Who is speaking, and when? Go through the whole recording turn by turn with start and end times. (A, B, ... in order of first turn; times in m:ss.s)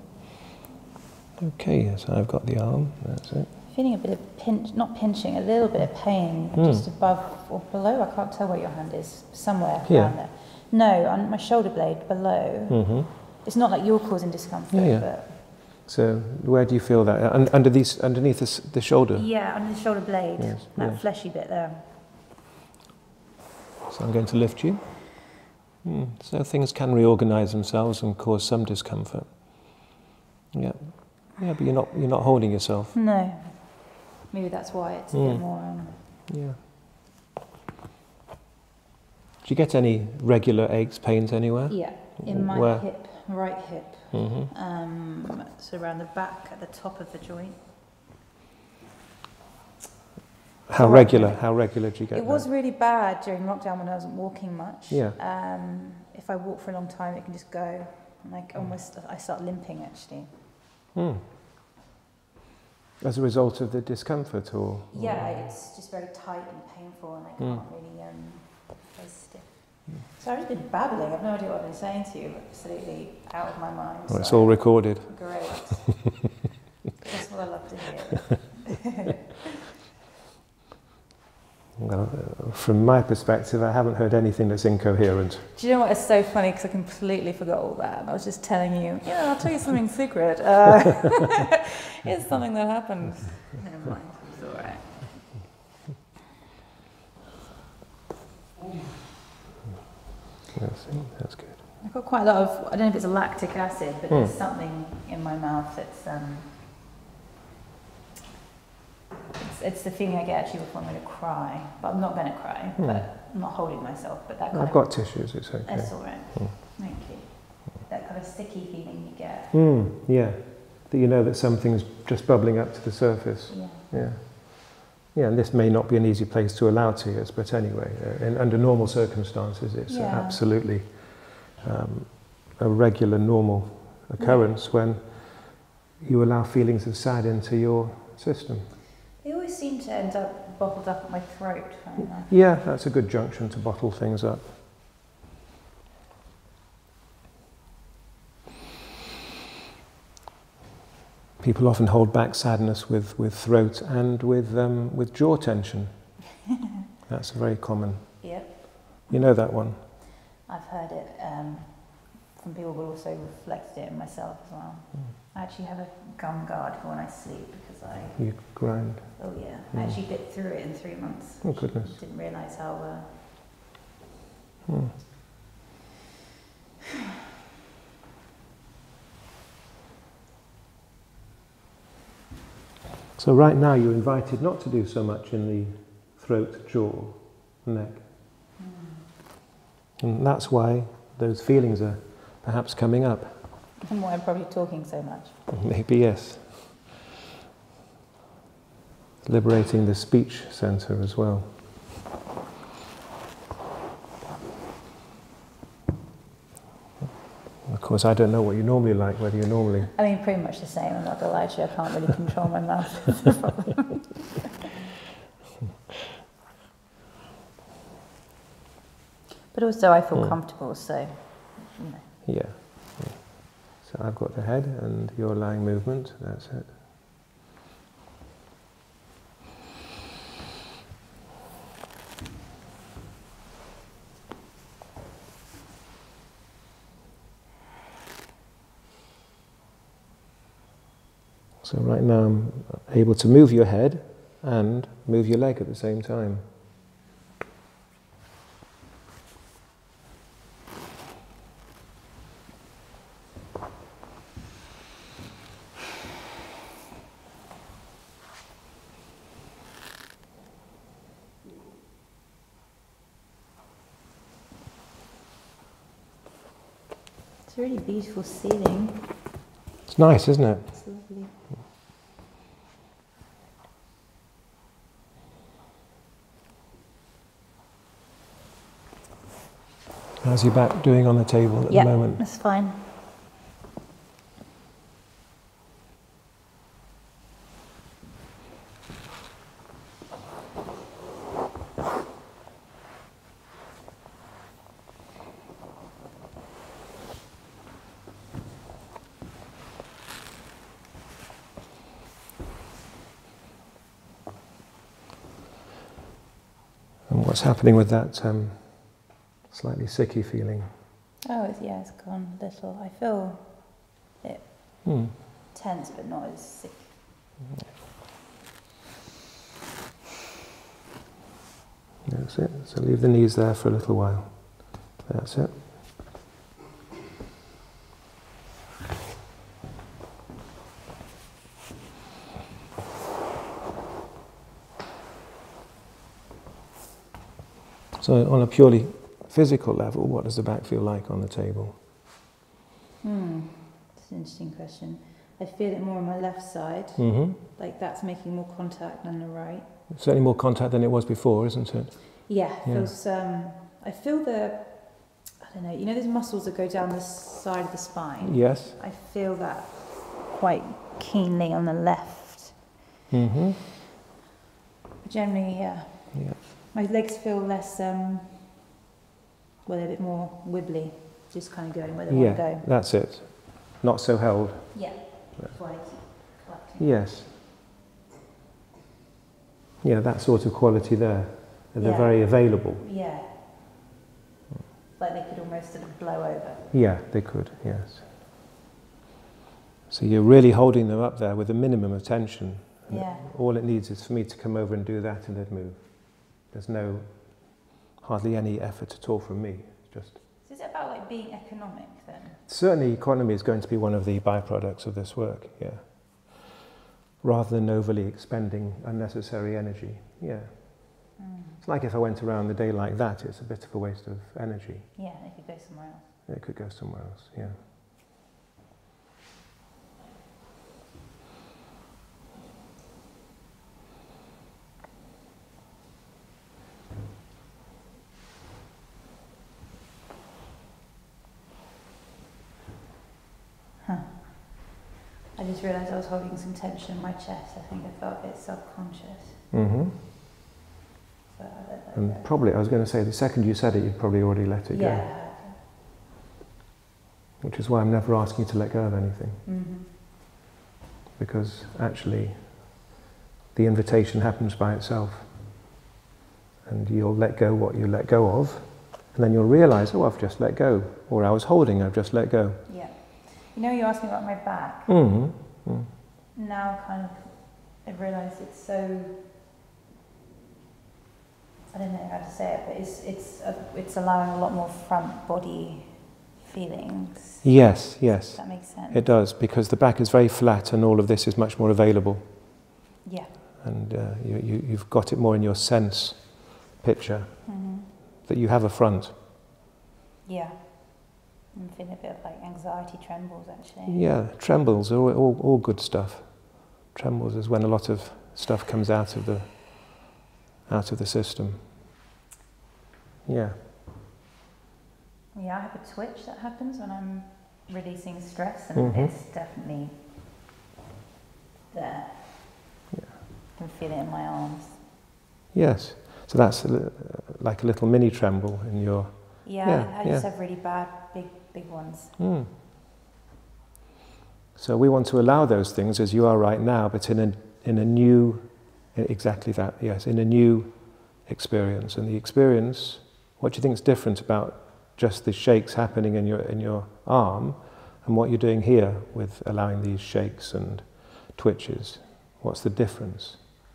0:01.4-0:03.6 A
0:03.7-0:15.4 B
0:06.5-0:06.9 A
0:09.9-0:10.2 A
0:12.7-0:13.1 A
0:14.7-0:19.3 A
0:19.1-0:21.9 B
0:20.4-0:21.0 A
0:23.9-0:29.8 A
0:30.5-0:33.0 A
0:32.9-0:36.1 B
0:35.1-0:35.5 A
0:36.0-0:36.6 A
0:39.4-0:42.9 A
0:41.7-0:47.6 B
0:44.1-0:44.5 A
0:50.7-0:52.5 A
0:50.7-1:00.4 B
0:54.9-0:55.2 A
1:01.0-1:01.3 A
1:03.0-1:05.4 A
1:04.9-1:16.2 B
1:07.4-1:07.6 A
1:14.1-1:15.8 A
1:17.0-1:19.3 B
1:21.8-1:25.5 A
1:25.6-1:35.3 B
1:40.5-1:41.6 A
1:41.8-1:46.6 B
1:44.1-1:44.4 A
1:49.4-1:59.6 B
1:52.8-1:53.1 A
1:54.5-1:56.6 A
1:59.5-2:18.8 A
2:03.5-2:03.9 B
2:09.9-2:10.4 B
2:14.2-2:14.5 B
2:19.2-2:22.4 B
2:22.3-2:24.6 A
2:31.4-2:36.2 A
2:37.1-2:38.4 A
2:38.2-2:48.6 B
2:39.1-2:39.8 A
2:48.2-2:50.0 A
2:49.2-2:53.2 B
2:51.4-2:52.0 A
2:54.7-2:55.0 A
3:03.2-3:08.1 A
3:08.6-3:09.0 B
3:10.0-3:13.5 A
3:13.8-3:15.4 B
3:15.5-3:16.9 A
3:19.2-3:21.6 A
3:27.6-3:29.9 A
3:30.0-3:34.2 B
3:39.5-3:42.2 B
3:42.2-3:46.8 A
4:01.6-4:06.4 A
4:27.5-4:29.2 B
4:29.9-4:30.8 A
4:30.7-4:31.3 B
4:40.2-4:42.2 A
4:41.7-4:42.9 B
5:07.1-5:10.7 A
5:11.2-5:17.0 B
5:14.8-5:15.2 A
5:22.0-5:25.7 A
5:38.0-5:41.8 A
5:43.0-5:49.7 B
5:47.0-5:47.4 A
5:49.9-5:52.9 A
5:52.3-6:02.7 B
5:58.2-5:58.8 A
6:03.1-6:03.6 A
6:05.0-6:08.7 B
6:06.1-6:06.4 A
6:09.6-6:12.7 B
6:12.1-6:15.6 A
6:14.7-6:17.0 B
6:16.8-6:17.4 A
6:19.8-6:22.8 A
6:21.8-6:23.4 B
6:25.0-6:26.7 B
6:26.7-6:28.1 A
6:29.9-6:40.2 A
6:32.9-6:33.3 B
6:40.4-6:42.4 B
6:42.5-6:46.6 A
6:47.2-6:55.0 A
6:51.2-6:51.6 B
6:55.0-6:56.2 B
6:56.3-6:57.6 A
7:13.8-7:14.8 B
7:15.4-7:19.4 B
7:19.5-7:20.0 A
7:21.4-7:22.3 B
7:21.9-7:25.1 A
7:24.7-7:25.6 B
7:27.4-7:29.4 A
7:29.4-7:30.0 B
7:31.2-7:32.9 A
7:33.5-7:35.6 A
7:36.6-7:42.6 A
7:42.7-7:44.9 B
7:44.9-7:45.9 A
7:46.3-7:49.3 B
7:51.7-7:57.6 B
7:57.4-8:02.6 A
7:58.4-7:59.1 B
8:03.0-8:03.4 B
8:03.6-8:09.1 A
8:07.5-8:07.9 B
8:10.3-8:14.1 B
8:13.9-8:20.1 A
8:20.7-8:21.8 A
8:23.3-8:23.6 A
8:25.3-8:30.0 B
8:28.8-8:29.2 A
8:31.7-8:32.6 B
8:32.9-8:33.2 A
8:33.6-8:34.8 B
8:35.5-8:40.3 A
8:39.4-8:42.2 B
8:42.2-8:42.5 A
8:44.6-9:03.4 A